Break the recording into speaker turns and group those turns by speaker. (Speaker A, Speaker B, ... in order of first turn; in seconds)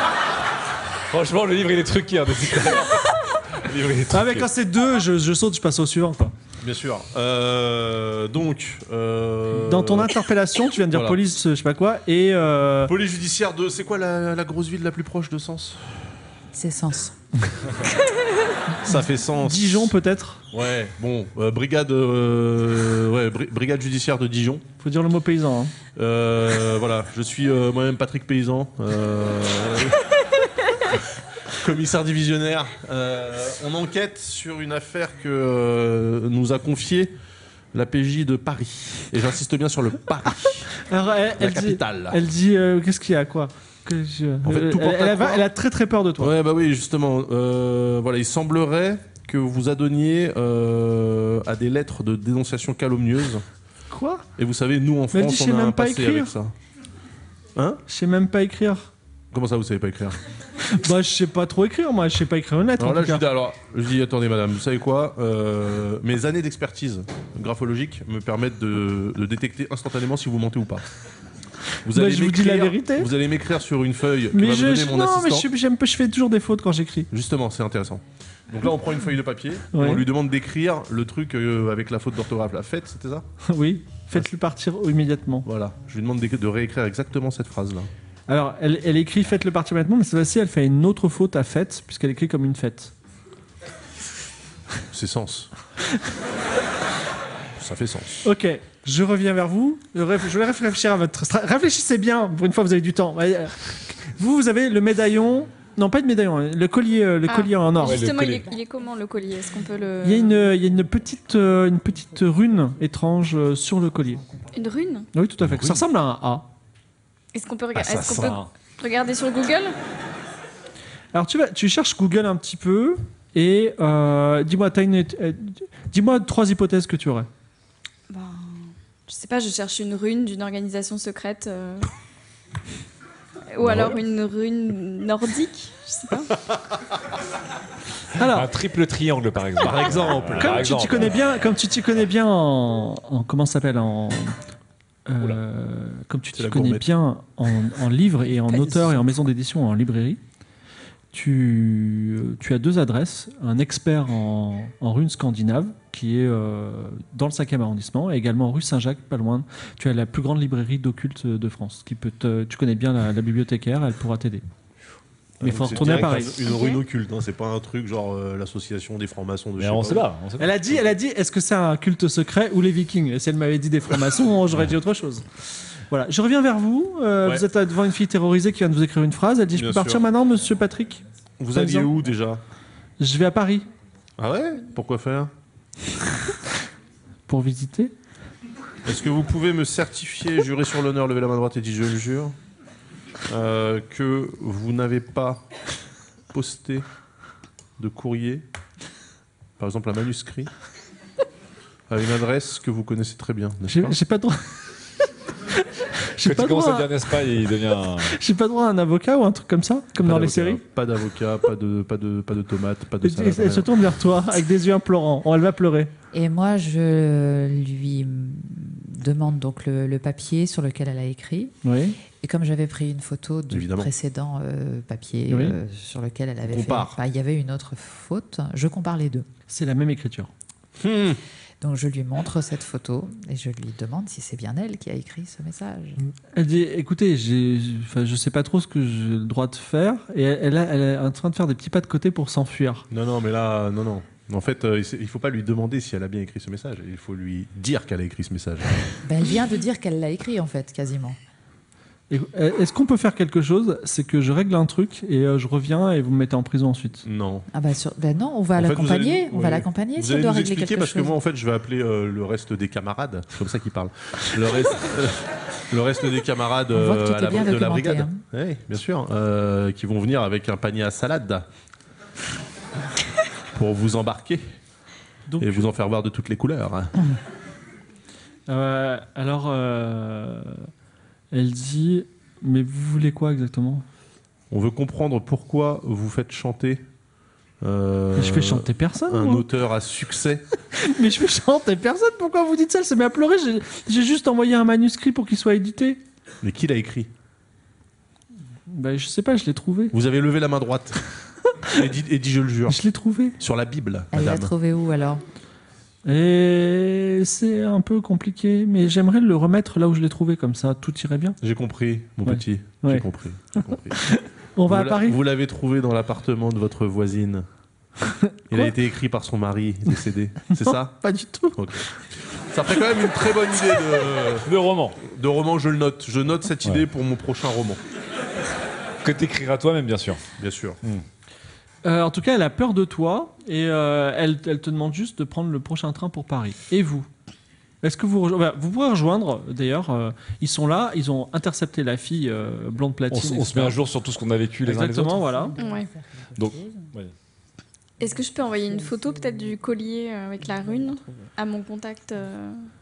Speaker A: 1.1-4.5, 107.8-108.5, 117.8-118.5, 138.2-141.2, 169.6-170.6, 206.2-208.2, 324.4-325.0, 329.0-330.2, 343.1-345.2, 346.4-347.1
Speaker B: 4.1-6.3, 9.6-12.9, 18.9-20.4, 24.8-25.7, 40.8-46.3, 53.9-54.2, 55.1-56.3, 57.9-58.9, 60.6-63.2, 71.9-73.1, 74.3-77.1, 79.7-80.0, 83.4-85.5, 88.3-92.9, 98.2-108.0, 110.0-114.2, 115.1-116.5, 121.1-127.3, 138.1-138.5, 140.4-144.4, 145.1-150.2, 151.1-164.4, 165.4-166.3, 170.4-181.0, 181.5-181.9, 183.0-183.7, 187.3-187.9, 203.7-204.5, 205.6-206.9, 208.0-210.6, 213.0-215.9, 221.6-222.0, 225.3-225.6, 229.5-230.3, 236.3-242.9, 252.1-257.0, 275.3-275.7, 278.5-280.7, 281.3-283.8, 288.1-289.5, 290.7-296.0, 298.7-299.9, 302.7-303.4, 306.1-311.4, 312.2-313.1, 314.0-315.2, 318.0-318.7, 320.5-321.9, 331.8-337.1, 337.8-343.8, 344.6-345.5
Speaker C: 6.6-10.2, 10.9-11.2, 12.8-16.1, 18.8-19.9, 20.5-24.6, 25.9-30.1, 30.9-37.1, 37.7-40.7, 41.4-42.2, 44.4-45.5, 46.2-53.4, 54.4-56.5, 57.5-57.8, 59.3-60.2, 62.8-70.9, 71.8-75.5, 77.1-83.3, 85.5-87.9, 94.9-95.5, 97.5-98.2, 115.5-115.7, 117.8-118.4, 133.6-133.9, 139.6-140.7, 146.3-146.9, 165.4-170.1, 179.5-180.1, 181.4-182.4, 184.2-185.3, 188.8-192.3, 193.3-195.4, 196.3-196.8, 197.8-198.4, 199.6-200.5, 201.9-204.0, 210.0-213.7, 223.5-223.9, 226.4-227.0, 230.8-231.2, 242.9-249.0, 257.0-257.5, 258.5-271.4, 273.5-274.4, 275.4-276.9, 284.5-286.8, 287.6-290.4, 296.4-297.1, 299.9-301.0, 301.6-302.8, 303.4-304.5, 311.4-314.1, 314.6-317.5, 318.5-320.9, 321.5-324.5, 325.0-327.8, 330.4-330.8
Speaker D: 16.5-17.1, 216.1-221.5, 222.1-229.2, 231.6-236.0, 249.0-251.2, 257.5-261.1, 266.7-268.2, 304.1-305.2, 345.2-346.9, 348.0-349.4, 350.5-351.3
Speaker E: 107.3-110.4, 114.5-115.1, 117.3-119.7, 128.1-131.9, 133.5-136.4, 166.3-166.8, 345.6-345.9, 348.0-352.7